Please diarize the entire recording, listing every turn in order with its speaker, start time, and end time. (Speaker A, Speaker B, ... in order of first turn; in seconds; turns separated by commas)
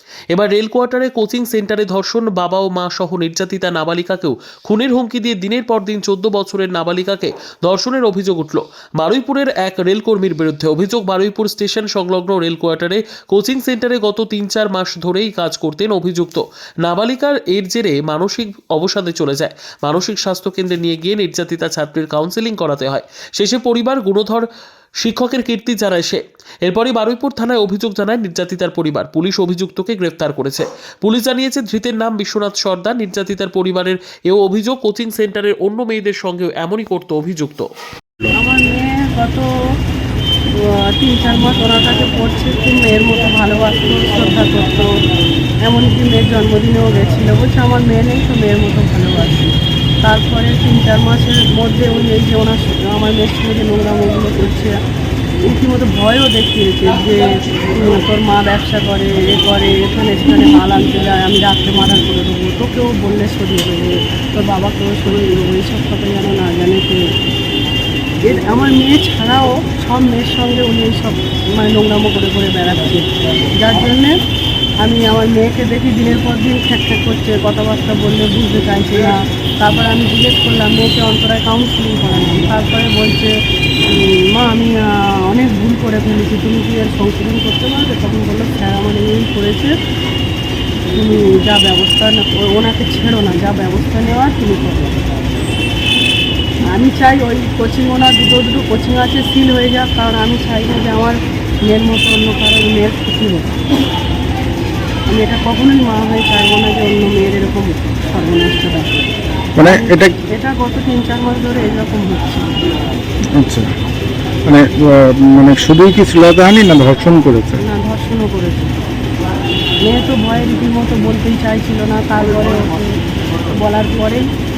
Speaker A: 0.3-24.5, Speaker A: 25.0-37.7, Speaker B: 38.4-39.5, Speaker B: 40.6-44.9, Speaker B: 45.6-54.7, Speaker B: 55.5-67.0, Speaker B: 68.2-73.0, Speaker B: 73.6-74.1, Speaker B: 74.8-83.3, Speaker B: 83.9-89.7, Speaker B: 90.9-95.1, Speaker B: 96.7-103.5, Speaker B: 105.1-109.1, Speaker C: 109.6-110.1, Speaker B: 109.6-112.5, Speaker C: 113.4-113.7, Speaker C: 114.5-117.6, Speaker B: 117.6-118.7, Speaker B: 119.8-122.9, Speaker B: 123.6-124.3